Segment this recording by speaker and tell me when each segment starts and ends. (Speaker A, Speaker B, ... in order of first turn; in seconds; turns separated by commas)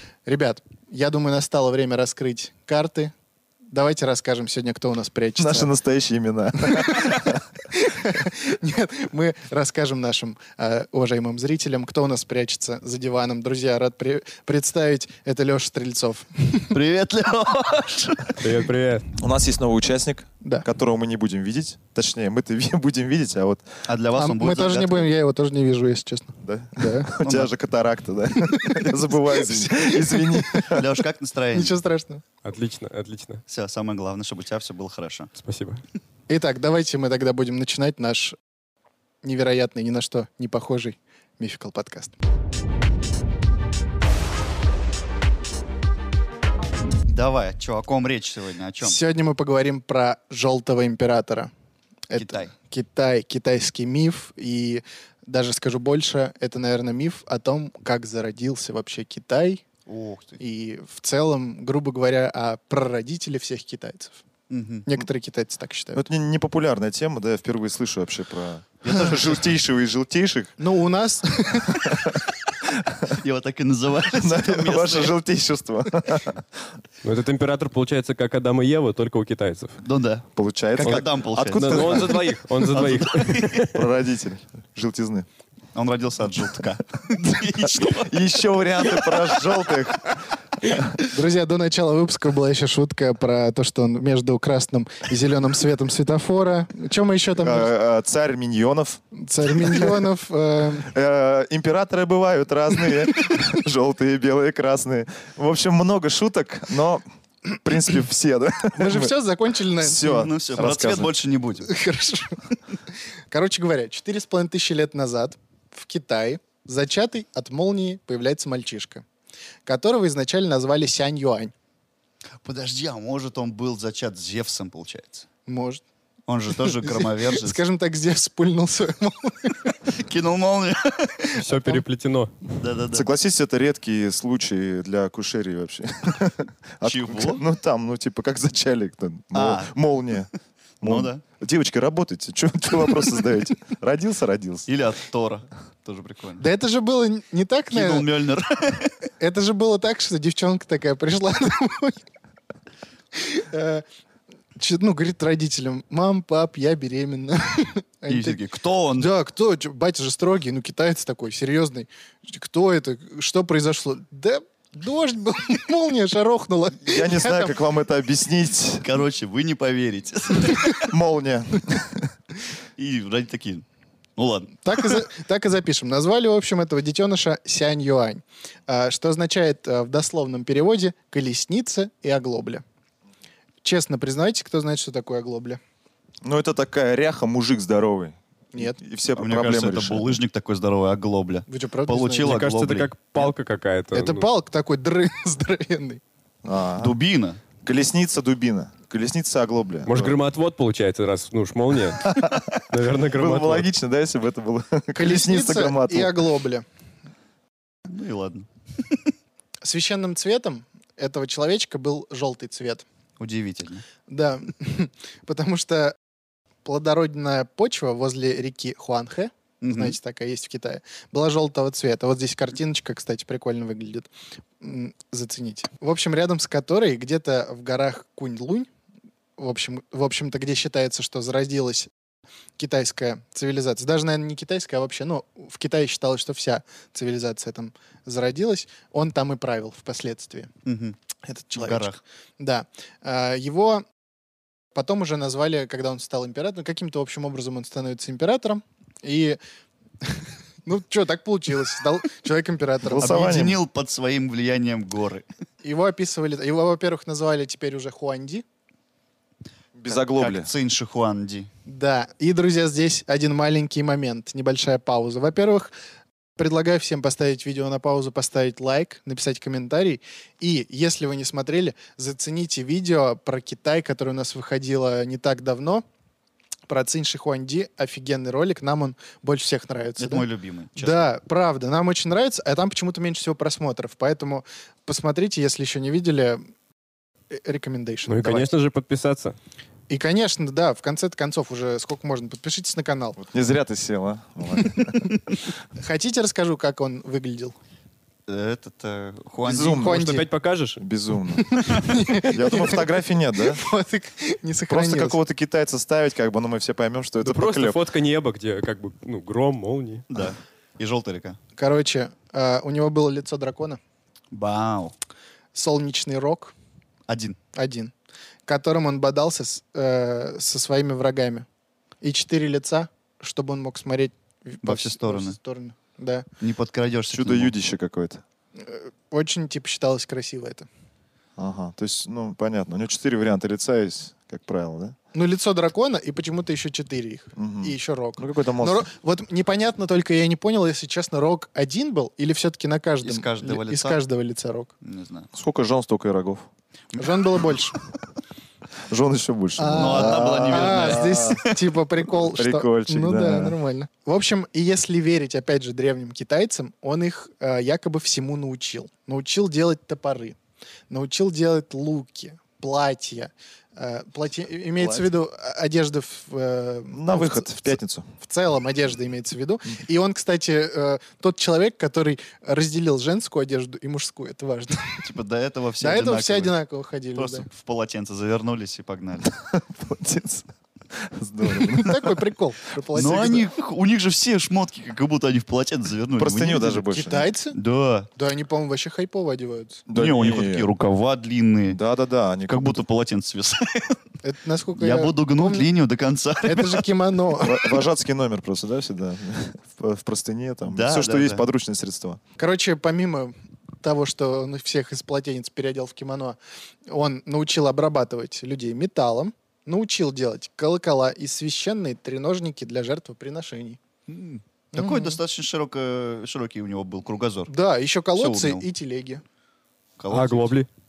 Speaker A: 0.2-3.1, Speaker A: 3.7-5.7, Speaker B: 5.4-7.4, Speaker A: 6.6-16.7, Speaker C: 16.7-18.4, Speaker D: 18.4-19.1, Speaker B: 19.2-23.7, Speaker C: 23.9-25.1, Speaker A: 24.1-27.1, Speaker B: 26.4-30.9, Speaker C: 27.2-27.5, Speaker A: 28.6-30.7, Speaker C: 30.6-31.8, Speaker A: 31.5-32.2, Speaker D: 32.4-33.4, Speaker C: 33.5-35.3, Speaker D: 35.4-35.8, Speaker A: 36.3-38.4, Speaker A: 39.2-42.1, Speaker C: 47.1-49.0, Speaker A: 48.8-51.5, Speaker A: 52.1-59.6, Speaker C: 52.1-52.5, Speaker C: 59.9-60.4, Speaker A: 60.4-64.2, Speaker C: 64.5-64.9, Speaker A: 64.8-66.0, Speaker B: 65.9-70.6, Speaker C: 68.8-69.5, Speaker A: 70.6-72.2, Speaker B: 71.7-72.2, Speaker B: 72.8-73.1, Speaker C: 73.1-75.1, Speaker B: 74.1-76.4, Speaker D: 77.0-79.8, Speaker C: 79.8-83.8, Speaker B: 80.3-82.3, Speaker D: 81.5-83.8, Speaker B: 83.7-85.2, Speaker C: 85.7-89.7, Speaker B: 87.6-90.8, Speaker A: 91.0-97.7, Speaker B: 97.4-100.0, Speaker A: 99.1-100.9, Speaker B: 100.8-107.0, Speaker B: 107.5-109.1, Speaker A: 108.7-110.9, Speaker B: 109.8-111.1, Speaker C: 109.9-111.8, Speaker A: 111.6-112.4, Speaker A: 113.3-119.0, Speaker A: 119.7-121.5, Speaker C: 122.4-125.3, Speaker A: 125.5-125.8, Speaker C: 126.3-127.6, Speaker A: 126.5-129.7, Speaker C: 129.9-131.4, Speaker D: 131.3-132.3, Speaker A: 131.5-131.8, Speaker C: 132.6-133.0, Speaker B: 132.9-140.3, Speaker C: 136.8-137.4, Speaker C: 139.3-139.8, Speaker C: 140.8-141.2, Speaker B: 140.8-144.7, Speaker C: 144.7-146.4, Speaker A: 146.4-148.1, Speaker C: 147.7-148.9, Speaker A: 149.2-152.0, Speaker A: 153.1-153.8, Speaker A: 154.6-158.4, Speaker C: 158.1-159.1, Speaker A: 159.0-167.5, Speaker B: 166.8-168.9, Speaker C: 168.8-170.9, Speaker B: 170.8-172.1, Speaker C: 172.8-173.6, Speaker C: 174.2-175.0, Speaker A: 174.6-182.6, Speaker A: 183.6-185.6, Speaker B: 186.2-190.2, Speaker A: 188.5-188.8, Speaker C: 189.1-193.3, Speaker A: 191.5-192.4, Speaker D: 192.2-194.2, Speaker A: 193.9-196.0, Speaker B: 196.4-196.9, Speaker C: 196.8-197.4, Speaker B: 197.6-200.2, Speaker D: 199.9-202.1, Speaker B: 202.0-206.2, Speaker D: 202.7-203.7, Speaker A: 204.9-206.6, Speaker C: 207.8-209.0, Speaker A: 209.6-212.8, Speaker C: 213.2-213.8, Speaker A: 214.1-215.9, Speaker A: 216.6-224.1, Speaker C: 219.6-220.0, Speaker A: 224.6-228.7, Speaker A: 229.4-231.9, Speaker A: 232.6-240.5, Speaker C: 240.6-240.9, Speaker A: 241.2-243.8, Speaker C: 241.6-242.0, Speaker A: 244.7-249.4, Speaker A: 250.6-253.3, Speaker B: 252.8-253.6, Speaker C: 252.9-255.2, Speaker A: 255.6-258.4, Speaker B: 259.7-260.5, Speaker C: 259.9-261.5, Speaker A: 261.6-265.7, Speaker A: 266.4-275.8, Speaker A: 276.7-280.2, Speaker C: 280.0-281.1, Speaker A: 280.8-286.5, Speaker A: 287.3-288.5, Speaker D: 288.1-289.4, Speaker A: 289.9-293.2, Speaker B: 293.2-295.2, Speaker A: 294.7-295.2, Speaker A: 295.8-297.5, Speaker C: 298.3-299.9, Speaker B: 299.4-300.2, Speaker D: 299.8-300.8, Speaker A: 299.8-300.3, Speaker B: 300.8-301.6, Speaker A: 301.3-305.2, Speaker B: 302.2-303.6, Speaker B: 304.7-307.8, Speaker D: 307.2-310.0, Speaker C: 310.1-311.4, Speaker A: 311.6-313.8, Speaker C: 314.3-314.9, Speaker A: 315.5-316.5, Speaker C: 317.1-317.4, Speaker A: 317.5-317.9, Speaker A: 318.4-321.4, Speaker A: 322.0-326.2, Speaker C: 324.6-325.4, Speaker C: 326.4-327.5, Speaker B: 327.1-328.2, Speaker A: 328.6-330.7, Speaker B: 331.4-334.9, Speaker A: 335.1-344.7, Speaker B: 337.4-338.9, Speaker C: 343.0-344.0, Speaker C: 344.8-345.3, Speaker B: 345.3-346.5, Speaker A: 346.9-347.8, Speaker B: 348.8-351.4, Speaker A: 349.6-360.4, Speaker C: 349.7-351.5, Speaker B: 352.1-353.6, Speaker A: 360.9-375.0, Speaker B: 364.8-365.1, Speaker B: 366.9-368.1, Speaker C: 375.0-376.5, Speaker A: 375.8-377.4, Speaker C: 377.1-379.3, Speaker B: 379.2-382.2, Speaker A: 381.4-383.5, Speaker C: 382.9-386.9, Speaker B: 386.2-387.3, Speaker A: 386.9-387.6, Speaker C: 387.5-388.1, Speaker A: 388.1-389.8, Speaker B: 389.9-390.7, Speaker C: 389.9-391.8, Speaker B: 391.7-392.8, Speaker C: 392.5-394.0, Speaker A: 394.2-395.7, Speaker C: 394.8-396.9, Speaker A: 396.4-397.7, Speaker B: 397.4-402.2, Speaker C: 400.7-401.4, Speaker A: 402.4-413.8, Speaker C: 414.1-417.5, Speaker A: 414.7-415.2, Speaker A: 417.5-419.2, Speaker C: 418.1-418.6, Speaker C: 420.0-420.6, Speaker D: 420.1-420.7